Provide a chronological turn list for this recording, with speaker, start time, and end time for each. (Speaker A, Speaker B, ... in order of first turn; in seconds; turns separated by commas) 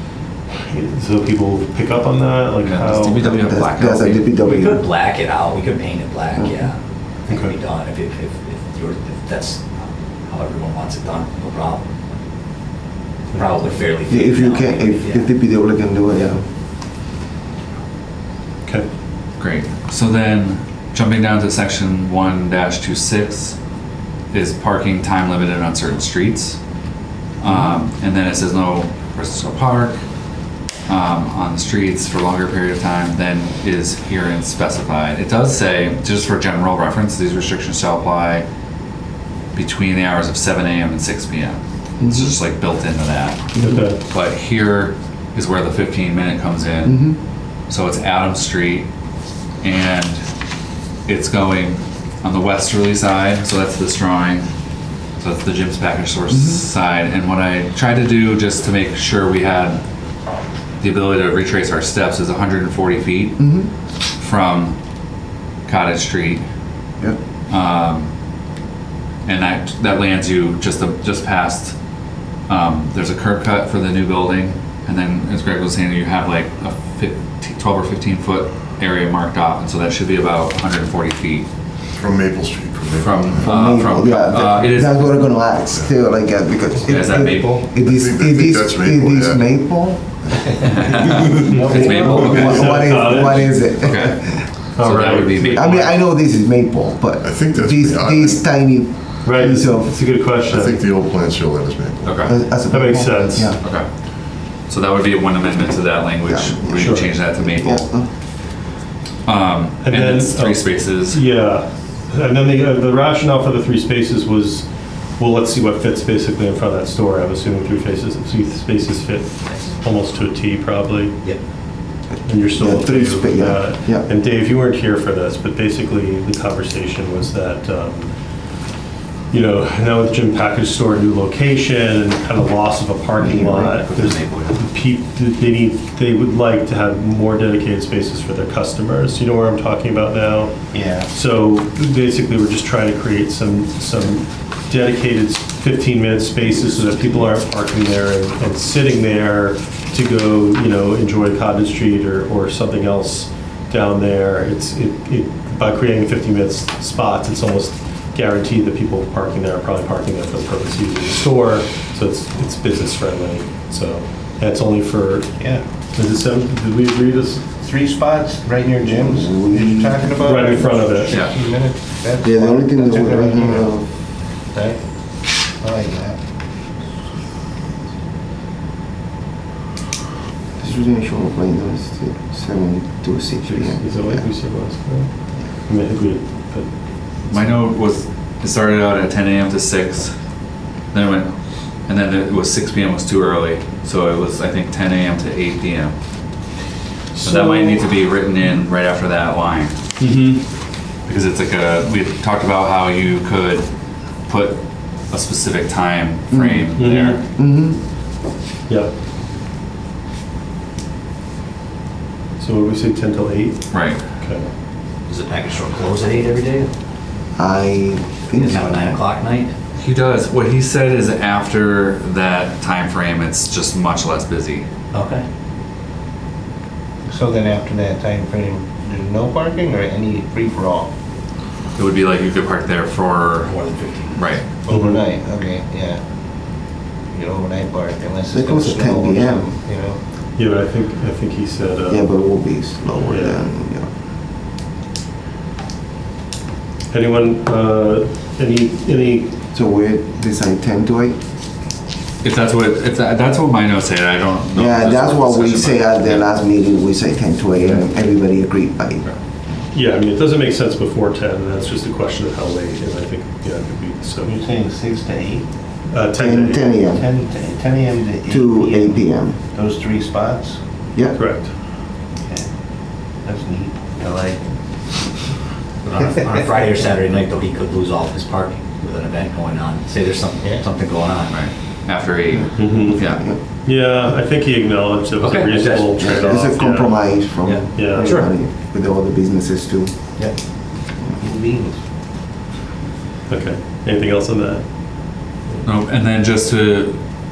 Speaker A: 0.6-3.2, Speaker B: 2.6-4.3, Speaker C: 3.2-4.9, Speaker D: 4.4-11.9, Speaker A: 7.3-7.5, Speaker D: 13.3-15.3, Speaker C: 14.1-16.5, Speaker B: 19.4-23.6, Speaker B: 24.3-26.6, Speaker B: 27.4-30.0, Speaker B: 30.9-38.5, Speaker B: 39.5-47.1, Speaker C: 42.0-42.4, Speaker C: 43.6-43.9, Speaker A: 43.6-44.0, Speaker C: 46.9-47.2, Speaker B: 47.7-48.9, Speaker B: 49.6-50.2, Speaker B: 51.1-54.5, Speaker B: 55.2-59.8, Speaker C: 56.3-56.6, Speaker B: 60.8-63.4, Speaker C: 63.4-63.7, Speaker B: 64.2-64.8, Speaker B: 65.7-66.5, Speaker B: 67.5-68.1, Speaker B: 69.2-71.8, Speaker B: 72.5-81.5, Speaker E: 81.9-83.6, Speaker B: 83.0-85.5, Speaker C: 83.4-90.2, Speaker E: 85.6-86.0, Speaker B: 86.8-87.8, Speaker E: 87.8-93.8, Speaker B: 90.6-92.7, Speaker C: 91.0-94.7, Speaker A: 91.5-93.6, Speaker F: 91.7-92.2, Speaker B: 93.8-96.0, Speaker A: 94.8-95.4, Speaker C: 95.4-100.2, Speaker E: 97.2-98.5, Speaker A: 99.2-100.9, Speaker E: 100.5-102.3, Speaker B: 102.0-102.4, Speaker C: 102.2-103.6, Speaker A: 102.7-103.5, Speaker B: 103.6-103.9, Speaker B: 104.7-108.0, Speaker C: 106.2-108.1, Speaker A: 106.8-107.1, Speaker B: 109.3-111.2, Speaker A: 109.8-121.3, Speaker A: 122.3-128.1, Speaker C: 122.5-124.1, Speaker A: 129.3-140.6, Speaker C: 133.2-133.8, Speaker D: 133.6-134.6, Speaker F: 140.7-141.1, Speaker A: 141.1-167.4, Speaker F: 165.4-165.6, Speaker F: 167.6-173.7, Speaker C: 168.9-170.4, Speaker A: 170.2-171.2, Speaker B: 171.1-171.3, Speaker C: 172.2-173.9, Speaker F: 174.5-174.8, Speaker F: 175.6-176.2, Speaker C: 180.6-184.2, Speaker A: 183.6-186.7, Speaker A: 187.3-187.6, Speaker B: 187.3-190.1, Speaker B: 190.9-191.3, Speaker B: 191.9-195.9, Speaker A: 197.2-197.8, Speaker B: 197.2-200.2, Speaker A: 200.0-200.4, Speaker B: 201.1-203.7, Speaker B: 204.3-207.2, Speaker C: 206.3-207.8, Speaker A: 206.8-207.2, Speaker A: 212.4-213.6, Speaker B: 213.7-214.0, Speaker A: 214.2-214.4, Speaker D: 215.1-216.7, Speaker C: 217.4-219.0, Speaker D: 218.3-219.5, Speaker B: 219.8-224.7, Speaker D: 224.9-225.2, Speaker F: 227.1-230.9, Speaker B: 231.8-233.6, Speaker D: 233.5-234.2, Speaker B: 234.1-234.5, Speaker F: 234.6-236.0, Speaker A: 234.7-235.0, Speaker F: 237.1-240.0, Speaker C: 238.3-239.5, Speaker A: 240.4-242.1, Speaker C: 241.9-243.9, Speaker A: 243.1-243.4, Speaker A: 246.9-249.3, Speaker C: 249.5-251.2, Speaker B: 252.2-256.2, Speaker C: 254.5-259.1, Speaker A: 259.7-264.3, Speaker F: 264.2-265.5, Speaker A: 265.9-266.7, Speaker C: 266.2-267.1, Speaker F: 266.5-270.6, Speaker C: 268.3-269.4, Speaker C: 270.9-271.5, Speaker A: 271.1-271.5, Speaker F: 272.2-272.5, Speaker F: 273.2-274.4, Speaker D: 275.8-281.3, Speaker F: 276.0-276.3, Speaker B: 281.3-283.2, Speaker C: 282.4-283.4, Speaker A: 282.6-287.2, Speaker D: 285.2-286.4, Speaker C: 286.0-290.3, Speaker D: 287.4-288.2, Speaker A: 287.8-288.3, Speaker F: 291.2-291.8, Speaker A: 293.3-295.3, Speaker B: 295.6-297.0